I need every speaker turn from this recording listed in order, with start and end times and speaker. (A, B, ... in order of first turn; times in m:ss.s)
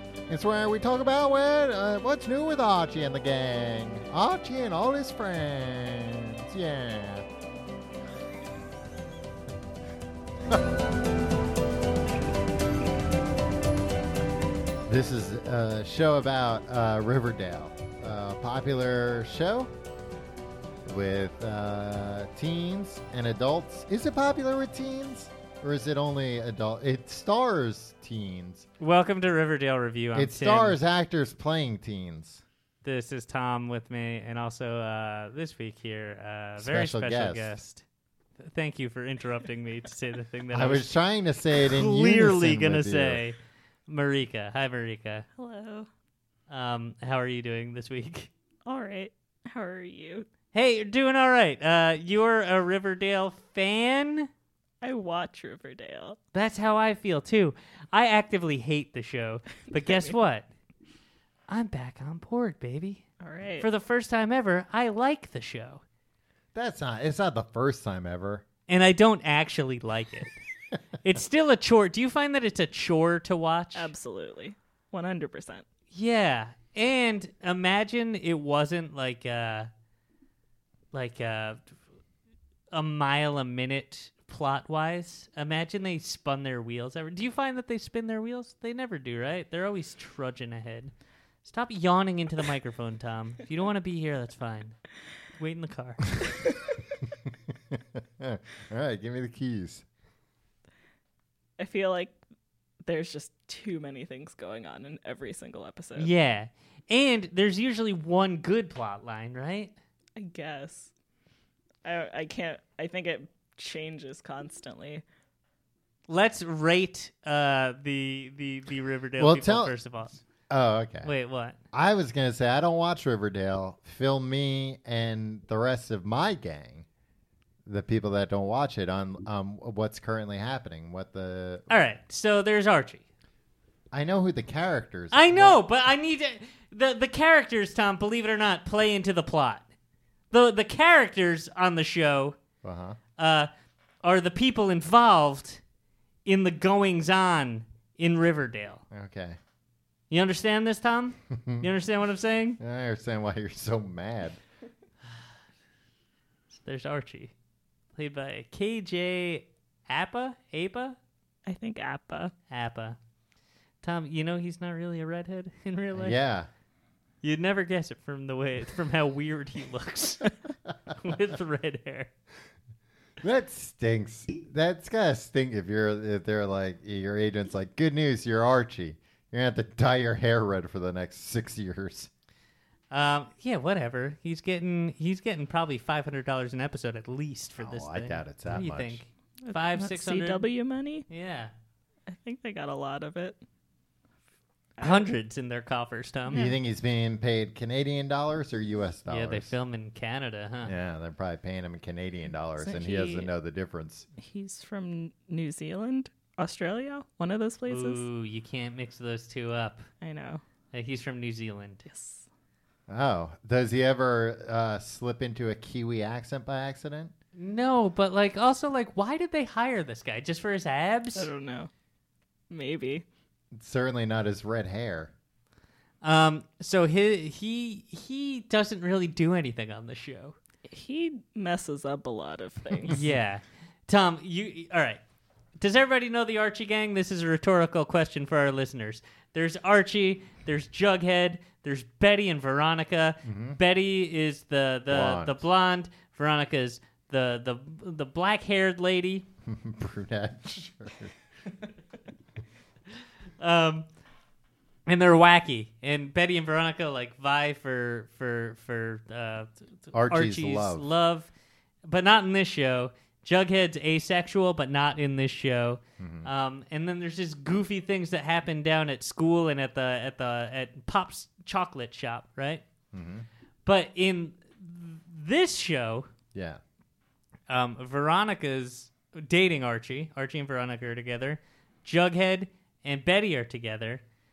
0:00.3-0:07.2 A
0:14.9-0:19.7 A
0:20.9-0:28.7 A
0:28.8-0:30.8 B
0:30.2-0:32.4 A
0:32.8-0:37.8 B
0:36.6-0:37.6 A
0:38.4-0:40.9 B
0:40.5-0:43.2 A
0:41.5-0:45.3 B
0:45.4-0:45.9 C
0:46.5-0:48.3 B
0:48.6-0:50.3 C
0:50.5-0:54.3 B
0:54.8-0:56.2 C
0:56.3-1:00.5 B
0:59.8-1:00.1 C
1:01.5-1:03.0 B
1:03.2-1:03.7 C
1:03.6-1:05.8 B
1:06.5-1:08.4 A
1:08.7-1:10.4 B
1:11.0-1:13.9 B
1:13.8-1:15.6 C
1:15.9-1:19.7 B
1:20.9-1:21.6 B
1:22.7-1:30.9 B
1:31.4-1:34.8 B
1:35.4-1:36.1 B
1:37.8-1:39.8 A
1:41.6-1:42.2 C
1:42.9-1:46.1 C
1:46.0-1:49.7 B
1:50.2-1:50.9 C
1:51.8-1:55.0 C
1:56.1-2:00.2 B
1:59.2-1:59.8 A
2:00.5-2:01.1 A
2:01.0-2:01.6 B
2:01.7-2:06.9 A
2:07.7-2:11.8 A
2:11.7-2:13.0 B
2:13.9-2:15.6 A
2:15.1-2:19.7 B
2:20.3-2:22.4 B
2:22.6-2:23.0 A
2:23.2-2:23.5 B
2:24.0-2:25.6 B
2:26.2-2:28.8 B
2:28.9-2:29.4 A
2:30.1-2:32.6 B
2:31.4-2:31.7 A
2:32.6-2:34.4 A
2:36.5-2:37.3 B
2:38.0-2:41.0 B
2:41.5-2:42.3 C
2:42.5-2:43.0 B
2:43.8-2:46.2 B
2:45.9-2:46.5 A
2:47.2-2:50.4 B
2:50.9-2:52.1 B
2:53.2-3:02.1 A
3:02.9-3:10.5 B
3:07.6-3:09.0 A
3:09.4-3:11.1 C
3:11.1-3:11.5 B
3:12.1-3:13.4 C
3:14.8-3:15.1 C
3:14.8-3:16.4 B
3:16.3-3:16.6 C
3:16.3-3:19.5 A
3:19.1-3:20.7 B
3:20.6-3:24.1 A
3:22.6-3:23.3 C
3:24.2-3:28.0 C
3:27.7-3:29.8 B
3:30.0-3:30.4 C
3:30.7-3:31.8 B
3:31.9-3:32.2 C
3:32.9-3:37.1 A
3:37.4-3:41.3 B
3:41.2-3:41.7 C
3:42.5-3:43.0 C
3:43.5-3:45.1 A
3:46.0-3:50.4 B
3:50.7-3:53.0 C
3:52.9-3:55.0 B
3:55.6-4:09.3 B
4:03.2-4:03.6 A
4:04.9-4:05.4 A
4:09.5-4:11.1 A
4:13.4-4:13.9 B
4:14.9-4:21.3 B
4:19.9-4:20.9 A
4:21.9-4:32.6 B
4:26.0-4:26.3 A
4:32.9-4:33.3 A
4:33.6-4:36.1 B
4:36.3-4:36.6 A
4:37.5-4:44.0 B